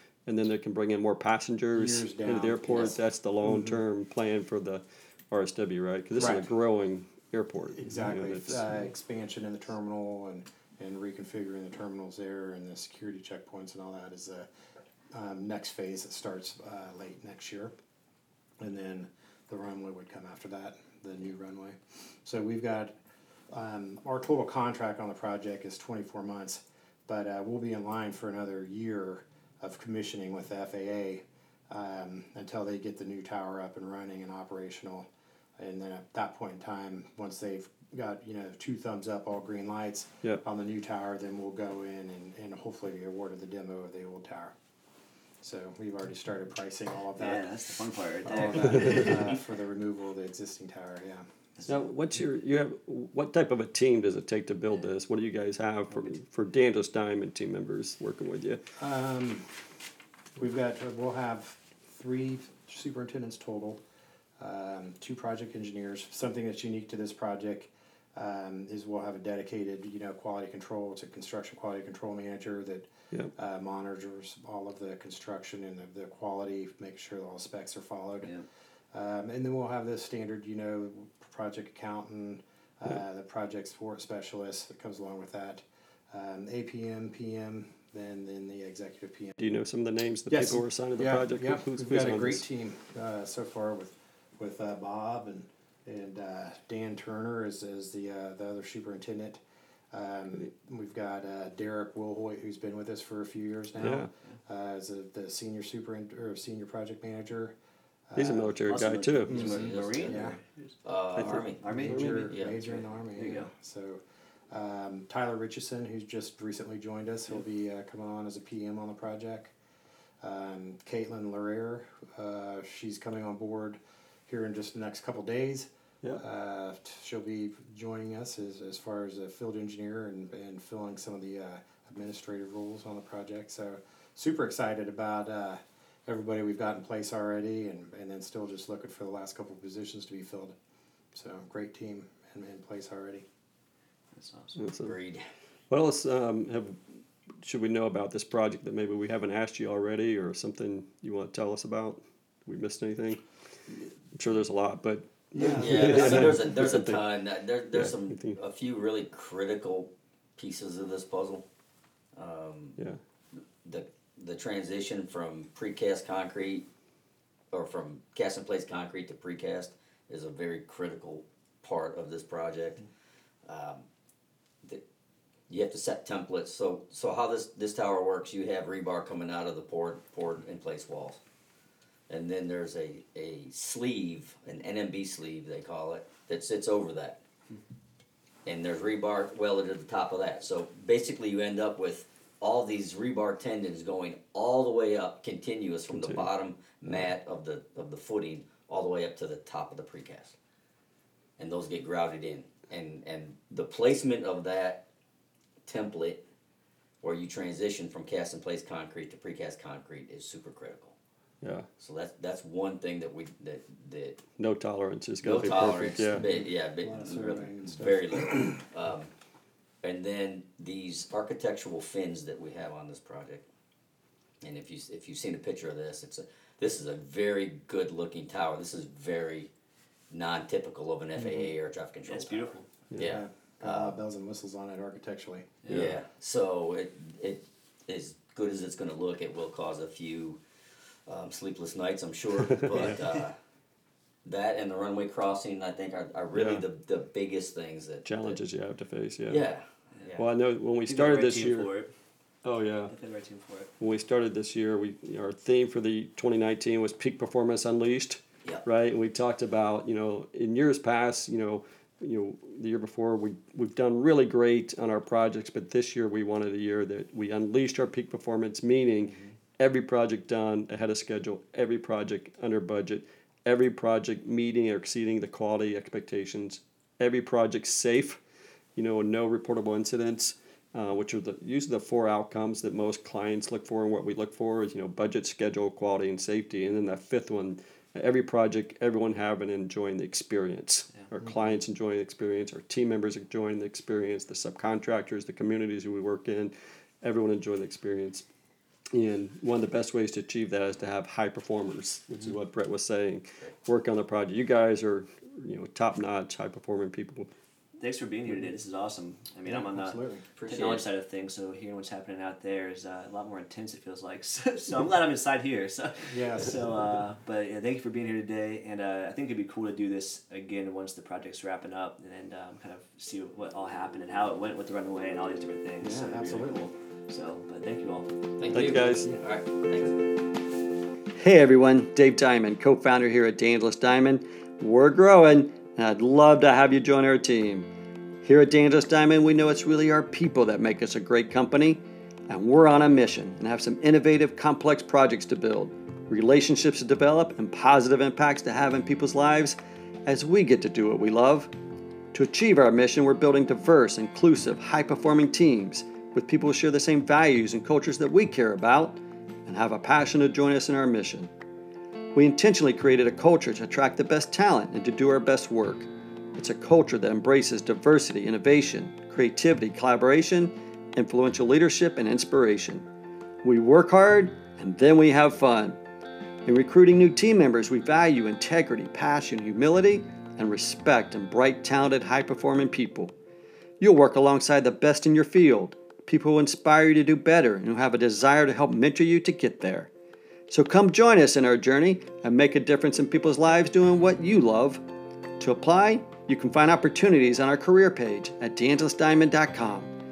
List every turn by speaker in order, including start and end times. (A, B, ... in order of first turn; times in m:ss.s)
0:00.3-0:08.6 A
0:01.7-0:03.8 B
0:06.2-0:06.5 B
0:07.7-0:14.5 B
0:15.1-0:17.7 B
0:18.6-0:22.9 B
0:23.5-0:44.6 B
0:45.4-0:47.5 B
0:47.2-0:49.4 C
0:48.2-0:51.2 B
0:51.7-0:58.6 A
0:58.8-0:59.7 B
1:00.4-1:03.8 B
1:04.4-1:18.4 B
1:18.9-1:29.4 B
1:29.4-1:32.4 A
1:30.3-1:39.4 B
1:39.9-1:47.6 B
1:43.8-1:44.1 A
1:48.1-1:48.6 B
1:48.2-1:49.5 A
1:48.7-1:50.8 C
1:49.3-1:50.4 B
1:49.3-1:50.2 D
1:50.8-1:52.6 D
1:51.2-1:52.3 A
1:51.3-1:53.5 C
1:51.7-1:59.5 B
2:00.2-2:20.6 B
2:21.1-2:23.3 B
2:24.1-2:24.6 C
2:24.6-2:25.0 A
2:24.8-2:25.3 D
2:25.7-2:26.8 A
2:27.4-2:33.2 A
2:34.1-2:37.0 A
2:35.3-2:36.4 B
2:35.4-2:41.4 D
2:37.7-2:38.4 A
2:42.2-2:42.8 D
2:43.6-2:46.7 D
2:47.5-2:52.8 D
2:53.5-2:53.9 D
2:55.5-3:01.2 D
3:02.1-3:07.2 D
3:08.4-3:20.4 D
3:15.9-3:16.3 A
3:21.4-3:24.9 D
3:25.7-3:26.2 D
3:27.0-3:31.0 D
3:31.4-3:31.7 A
3:31.8-3:34.2 D
3:34.4-3:36.2 A
3:35.2-3:39.1 D
3:36.3-3:38.6 B
3:39.8-3:43.4 D
3:44.4-3:49.5 D
3:50.1-3:54.0 D
3:51.2-3:51.5 B
3:52.1-3:52.8 C
3:53.0-3:55.6 B
3:55.6-3:56.0 C
3:55.7-4:00.4 D
4:01.1-4:03.4 D
4:02.7-4:03.0 A
4:04.2-4:08.4 D
4:06.3-4:06.6 A
4:08.0-4:09.5 A
4:09.3-4:10.2 D
4:10.2-4:11.7 A
4:10.8-4:11.9 C
4:12.4-4:13.0 A
4:12.9-4:13.7 C
4:13.8-4:38.2 A
4:29.1-4:29.3 C
4:38.8-4:58.3 A
4:58.9-5:07.3 A
5:07.8-5:28.7 C
5:09.4-5:10.3 B
5:10.4-5:10.9 D
5:16.1-5:16.6 B
5:25.8-5:26.7 B
5:28.4-5:30.0 D
5:28.5-5:29.2 A
5:31.2-5:37.7 A
5:38.2-5:51.5 A
5:52.1-6:01.3 A
6:02.2-6:12.9 A
6:13.4-6:15.8 A
6:16.4-6:23.1 A
6:23.8-6:29.9 A
6:30.5-6:34.8 A
6:35.4-6:39.9 A